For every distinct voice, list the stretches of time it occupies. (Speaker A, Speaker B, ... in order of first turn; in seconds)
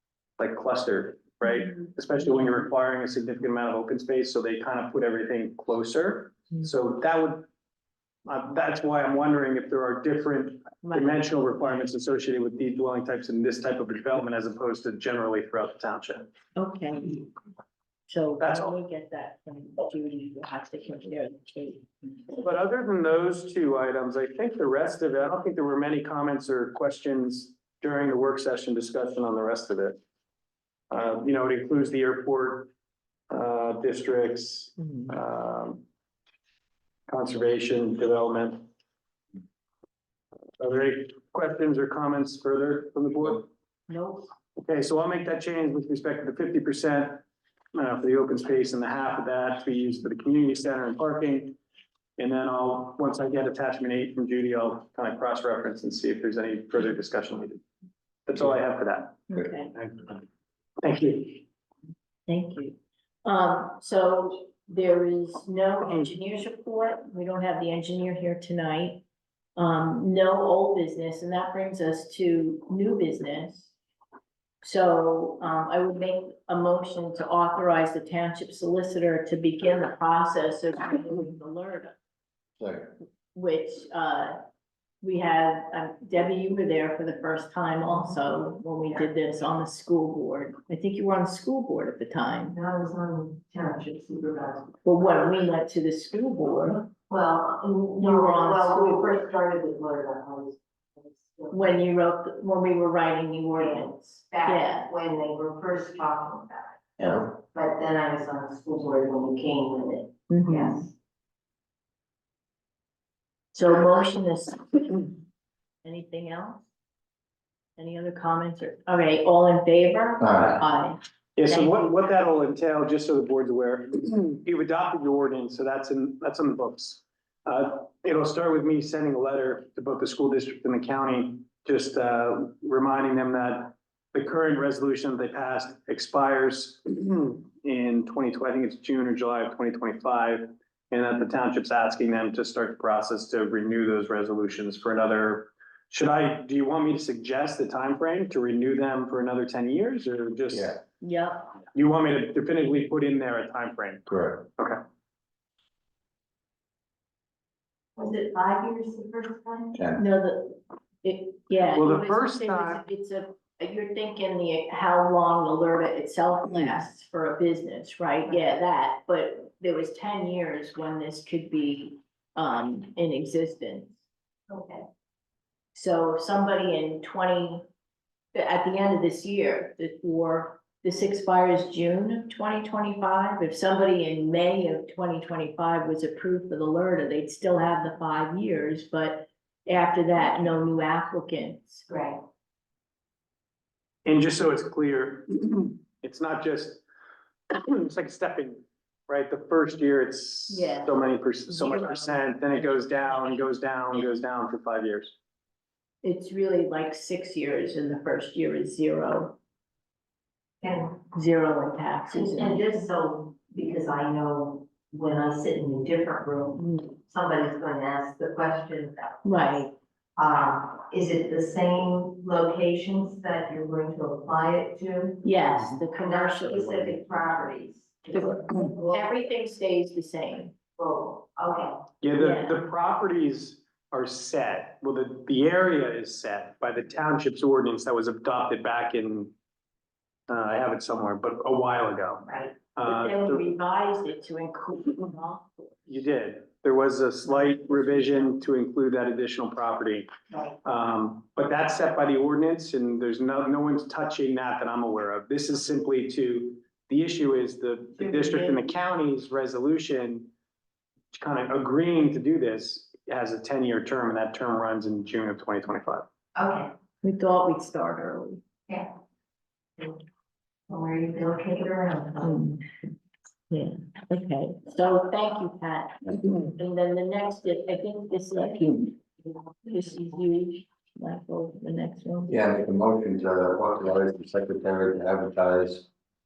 Speaker A: 0.4-7.5, 8.2-16.3, 18.4-18.7, 22.4-30.0, 30.9-32.7, 33.3-35.8, 37.1-38.6, 40.6-43.5, 44.6-51.5, 52.2-57.6, 58.3-59.2, 59.7-60.2, 60.8-61.4, 121.3-150.8, 151.7-154.8, 161.6-162.8, 194.0-196.8, 197.5-205.1, 232.0-239.3, 240.3-243.4, 245.9-250.1, 250.6-260.3, 261.1-266.0
Speaker B: 10.8-11.8, 16.6-17.3, 18.1-22.3, 34.8-35.1, 43.9-44.3, 59.3-59.7, 62.3-69.0, 69.5-73.7, 74.6-82.0, 83.3-84.4, 85.0-92.5, 94.8-96.9, 98.0-99.2, 101.5-104.9, 110.3-110.9, 113.5-115.2, 115.8-116.7, 117.8-122.0, 151.0-151.5, 159.9-174.0, 175.7-177.6, 178.3-191.8, 200.5-200.9, 201.5-203.4, 206.0-209.4, 211.1-212.7, 216.6-216.9, 219.2-219.7, 225.2-226.9, 228.1-230.5, 232.2-232.7, 242.8-246.0, 247.2-248.4, 258.0-258.6, 267.0-268.4, 272.2-272.7, 273.5-279.0, 279.6-282.3
Speaker C: 82.6-82.9, 107.0-107.3, 120.2-120.6, 150.5-150.8, 154.1-154.4, 159.8-160.0, 282.3-285.9
Speaker D: 92.5-94.7, 97.1-101.8, 103.6-106.8, 107.4-110.9, 158.0-159.8, 174.5-174.8, 191.9-192.2, 210.6-211.0, 212.1-219.2, 220.2-225.3, 226.0-229.1, 230.8-231.8, 242.3-242.5, 250.3-250.6, 266.3-266.7, 270.7-272.4